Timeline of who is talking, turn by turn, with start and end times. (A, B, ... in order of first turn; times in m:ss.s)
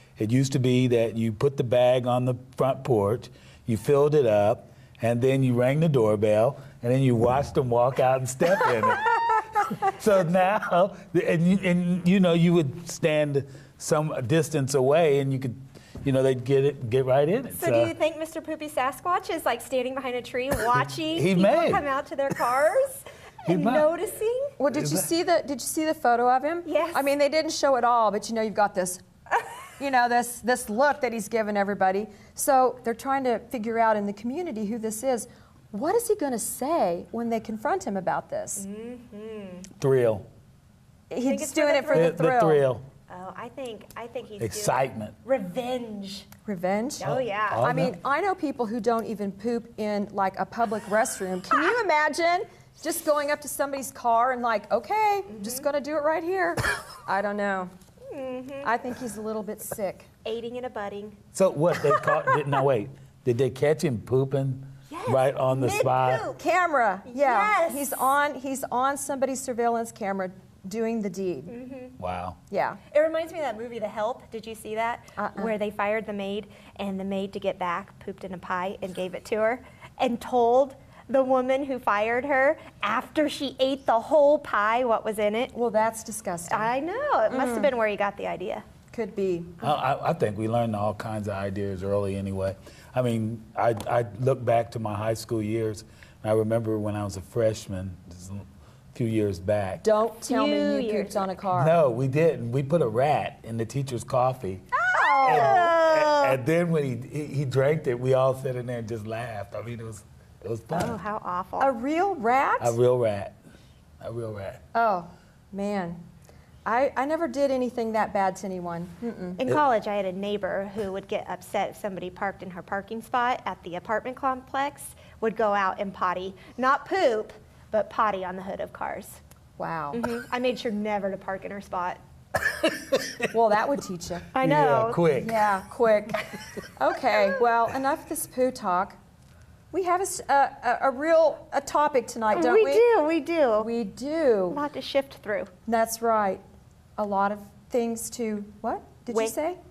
0:00.2-0:17.9 A
0:17.5-0:24.5 B
0:21.1-0:21.8 A
0:23.5-0:23.9 A
0:24.6-0:29.0 C
0:24.7-0:25.1 A
0:26.7-0:27.1 B
0:29.8-0:38.7 C
0:38.6-0:39.7 B
0:39.8-0:40.3 A
0:41.1-0:42.7 C
0:41.2-0:42.2 B
0:41.9-0:42.8 A
0:43.1-0:46.3 B
0:44.4-0:45.2 A
0:46.5-0:57.7 C
0:47.0-0:47.6 B
0:47.0-0:48.0 A
0:55.3-0:55.6 B
0:58.1-0:58.7 B
0:58.6-1:00.1 C
1:00.2-1:01.2 B
1:01.3-1:06.2 A
1:04.9-1:06.4 B
1:06.4-1:11.5 C
1:07.1-1:08.0 B
1:11.5-1:12.0 B
1:12.0-1:12.4 A
1:12.5-1:12.8 C
1:12.9-1:25.5 B
1:15.2-1:15.5 C
1:25.5-1:26.7 C
1:26.5-1:28.6 B
1:27.3-1:27.7 C
1:28.9-1:29.5 C
1:29.6-1:39.8 A
1:39.8-1:41.8 C
1:40.3-1:41.3 B
1:41.6-1:44.6 A
1:44.8-1:46.4 B
1:45.0-1:45.6 C
1:45.2-1:51.0 A
1:50.7-1:51.7 B
1:51.6-1:52.8 C
1:52.6-1:53.4 A
1:54.0-1:54.6 A
1:54.7-1:56.0 C
1:56.6-1:59.4 C
1:59.4-2:09.2 B
2:09.6-2:10.0 C
2:09.9-2:12.0 B
2:12.6-2:13.2 A
2:13.3-2:14.3 C
2:14.3-2:15.0 B
2:14.4-2:15.4 A
2:15.2-2:16.2 C
2:16.8-2:19.0 C
2:19.7-2:22.8 C
2:22.3-2:23.7 B
2:23.6-2:24.6 C
2:24.5-2:25.5 B
2:25.7-2:26.4 C
2:27.0-2:29.6 C